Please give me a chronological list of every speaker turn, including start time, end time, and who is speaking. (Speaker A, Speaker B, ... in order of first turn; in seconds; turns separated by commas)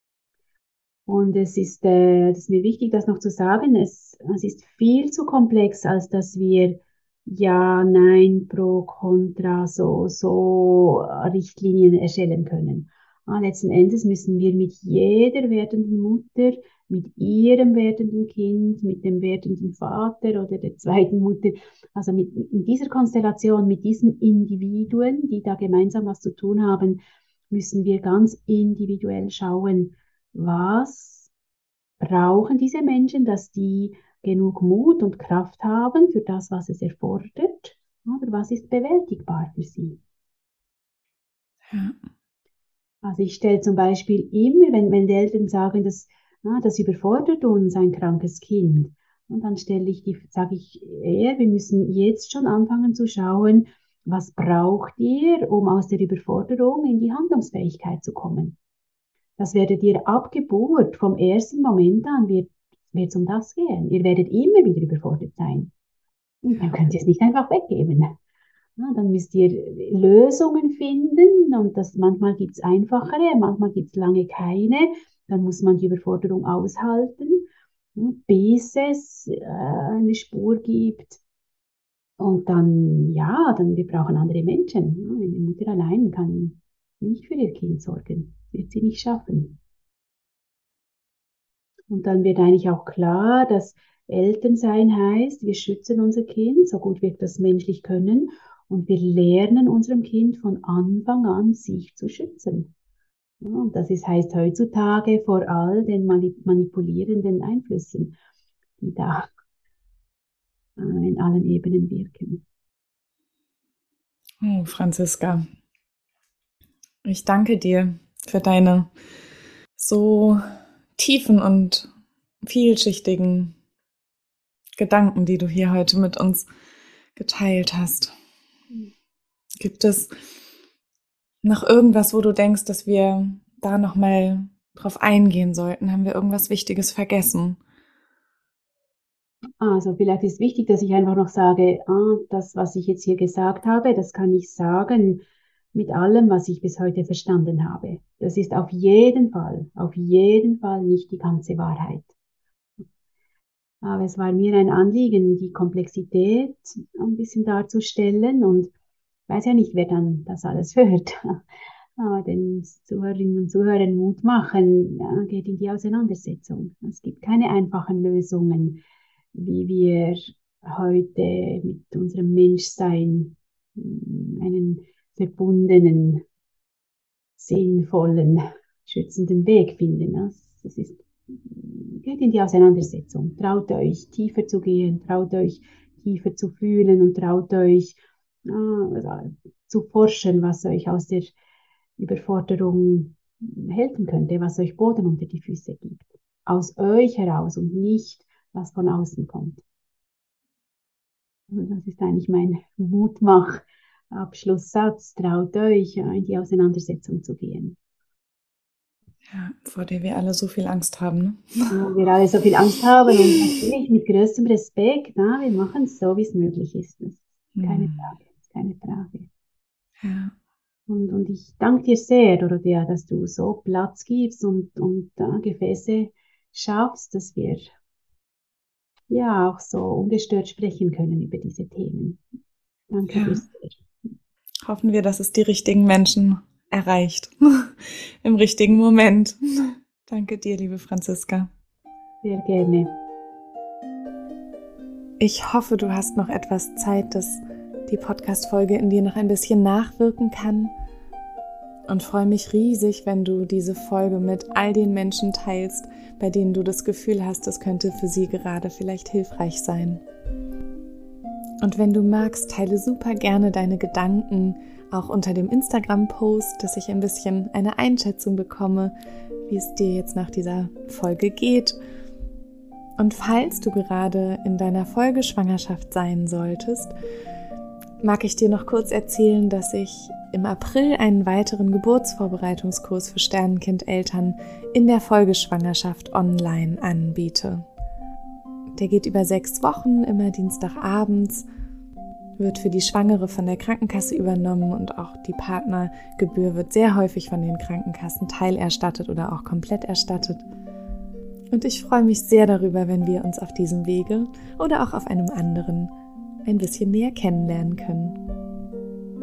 Speaker A: 1.1-31.3, Speaker A: 32.0-40.0, Speaker B: 41.7-42.0, Speaker A: 43.0-58.6, Speaker A: 59.4-65.7, Speaker A: 66.4-68.1, Speaker A: 68.8-81.2, Speaker A: 82.2-89.6, Speaker A: 91.9-102.7, Speaker A: 103.4-108.1, Speaker A: 108.8-109.3, Speaker A: 110.8-112.4, Speaker B: 114.4-115.5, Speaker B: 117.0-118.9, Speaker B: 119.8-120.4, Speaker B: 121.0-121.9, Speaker B: 122.4-123.6, Speaker B: 124.8-126.5, Speaker B: 127.2-128.1, Speaker B: 129.6-130.1, Speaker B: 131.4-137.6, Speaker A: 139.6-145.2, Speaker A: 145.7-152.1, Speaker A: 153.8-158.7, Speaker A: 159.3-161.4, Speaker A: 162.0-168.8, Speaker A: 169.3-176.2, Speaker A: 177.4-191.3, Speaker A: 192.0-199.6, Speaker A: 201.5-207.8, Speaker B: 209.3-211.8, Speaker A: 211.7-219.3, Speaker B: 213.1-213.7, Speaker B: 217.6-218.1, Speaker B: 220.0-220.3, Speaker A: 220.9-227.7, Speaker A: 229.1-232.2, Speaker A: 232.9-233.8, Speaker B: 233.1-233.4, Speaker B: 234.7-241.5, Speaker A: 242.2-242.9, Speaker B: 245.2-250.7, Speaker B: 251.9-260.0, Speaker B: 261.6-268.9, Speaker B: 269.5-271.8, Speaker B: 273.0-276.9, Speaker B: 278.0-287.7, Speaker B: 288.7-291.5, Speaker B: 292.4-300.4, Speaker B: 301.5-305.9, Speaker B: 306.4-308.2